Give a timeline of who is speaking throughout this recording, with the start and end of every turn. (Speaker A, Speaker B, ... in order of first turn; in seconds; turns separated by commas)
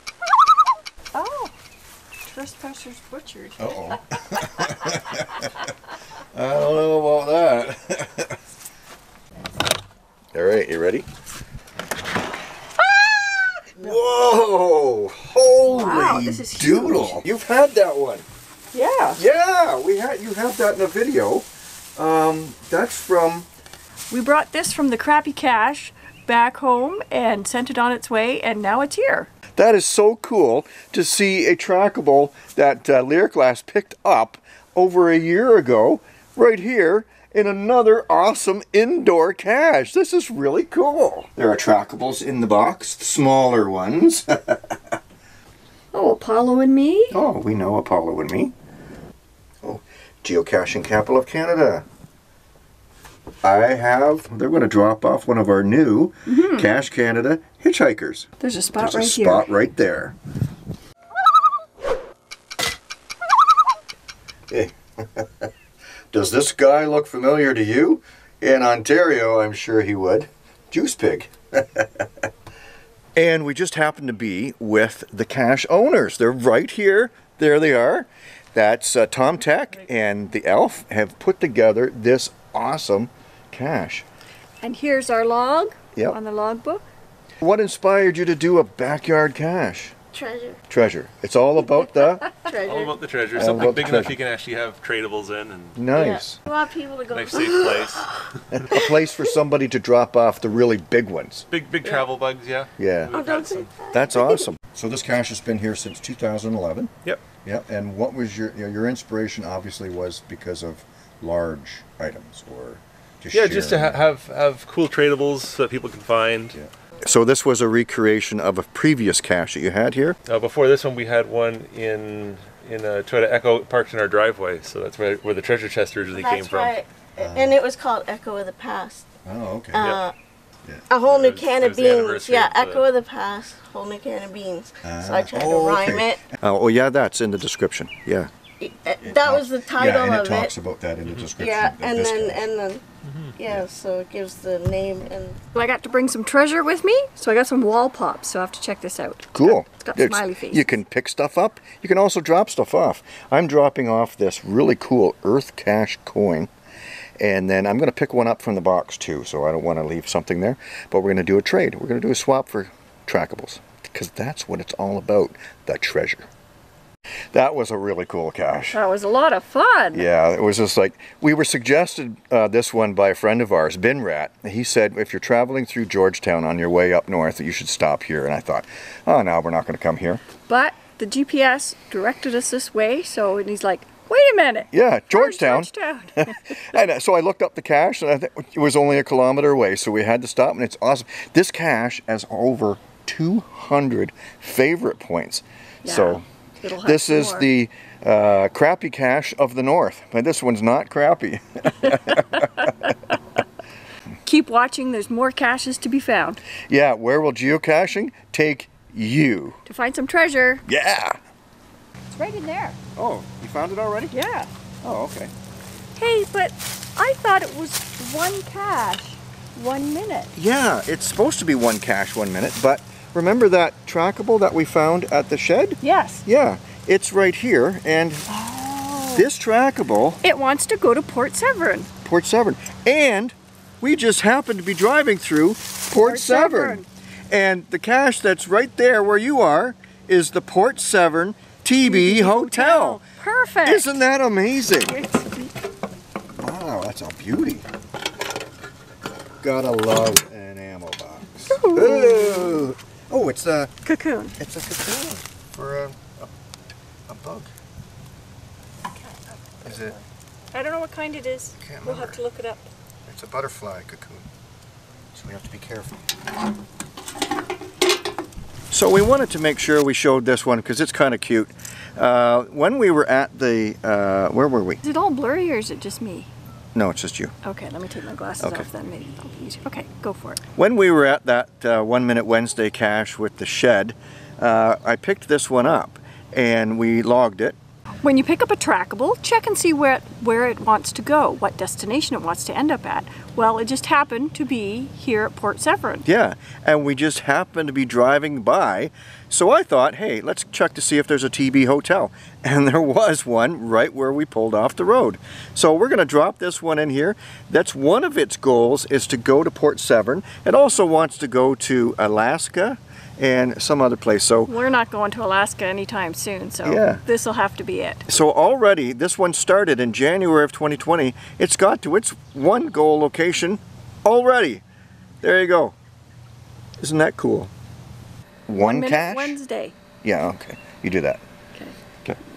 Speaker A: 1.1-1.5, Speaker A: 2.2-4.0, Speaker B: 3.6-5.5, Speaker B: 6.3-8.4, Speaker B: 10.3-11.1, Speaker A: 12.9-13.7, Speaker B: 13.8-18.3, Speaker A: 15.7-17.2, Speaker A: 18.7-19.2, Speaker B: 19.2-23.5, Speaker A: 24.1-29.3, Speaker B: 29.6-44.8, Speaker A: 45.9-47.2, Speaker B: 47.1-48.5, Speaker B: 49.6-51.9, Speaker B: 53.4-58.3, Speaker A: 56.3-56.7, Speaker A: 58.4-59.5, Speaker B: 58.8-60.1, Speaker B: 64.5-65.5, Speaker B: 66.1-72.1, Speaker B: 73.2-84.0, Speaker A: 84.6-86.9, Speaker B: 87.4-90.0, Speaker C: 90.1-90.6, Speaker B: 90.7-92.3, Speaker C: 92.4-93.7, Speaker D: 92.6-95.8, Speaker B: 93.3-94.2, Speaker B: 95.8-96.4, Speaker C: 95.9-98.1, Speaker D: 97.1-98.6, Speaker B: 98.6-101.5, Speaker D: 101.5-103.7, Speaker C: 101.8-102.1, Speaker B: 102.8-103.2, Speaker C: 103.1-104.5, Speaker B: 103.9-106.9, Speaker B: 107.5-114.0, Speaker D: 113.3-116.6, Speaker B: 116.5-120.2, Speaker D: 120.3-126.8, Speaker C: 126.1-129.1, Speaker B: 127.2-127.6, Speaker B: 129.2-129.9, Speaker C: 129.7-130.1, Speaker D: 129.8-130.0, Speaker C: 130.9-136.2, Speaker D: 131.0-132.9, Speaker B: 134.8-138.3, Speaker C: 138.6-140.5, Speaker B: 139.0-142.5, Speaker C: 141.4-142.8, Speaker D: 143.0-143.3, Speaker C: 143.4-145.4, Speaker A: 145.5-150.8, Speaker B: 149.3-156.5, Speaker B: 157.2-166.3, Speaker B: 167.3-168.8, Speaker A: 168.7-170.1, Speaker B: 169.9-180.2, Speaker A: 180.5-186.7, Speaker B: 184.7-196.2, Speaker A: 195.8-197.5, Speaker B: 196.8-202.7, Speaker A: 204.2-206.4, Speaker B: 206.7-209.6, Speaker A: 209.7-210.6, Speaker B: 210.7-211.2, Speaker A: 212.1-212.8, Speaker B: 213.0-214.1, Speaker A: 214.1-214.5, Speaker B: 214.8-215.3, Speaker A: 216.0-220.3, Speaker B: 220.3-228.3, Speaker A: 225.8-226.2, Speaker A: 228.3-229.3, Speaker B: 229.1-230.2, Speaker A: 230.2-231.9, Speaker B: 232.0-243.0, Speaker A: 236.0-236.9, Speaker A: 241.8-243.9, Speaker B: 243.6-245.0, Speaker A: 244.9-245.5, Speaker B: 246.4-247.7, Speaker B: 249.4-253.7, Speaker A: 251.5-252.7, Speaker A: 253.8-254.4, Speaker B: 254.4-256.3, Speaker B: 257.1-257.5, Speaker A: 259.0-262.7, Speaker B: 259.6-260.0, Speaker B: 261.6-262.2, Speaker B: 263.1-264.3, Speaker B: 265.1-266.0, Speaker B: 268.7-274.8, Speaker A: 274.8-276.3, Speaker B: 276.8-277.3, Speaker A: 277.4-280.4, Speaker B: 278.4-278.7, Speaker B: 280.6-287.6, Speaker A: 288.0-296.1, Speaker B: 296.1-314.5, Speaker A: 314.5-318.1, Speaker B: 316.6-317.0, Speaker B: 318.1-324.6, Speaker B: 325.2-325.8, Speaker B: 326.8-327.5, Speaker B: 328.5-329.4, Speaker A: 328.5-329.7, Speaker B: 330.0-331.2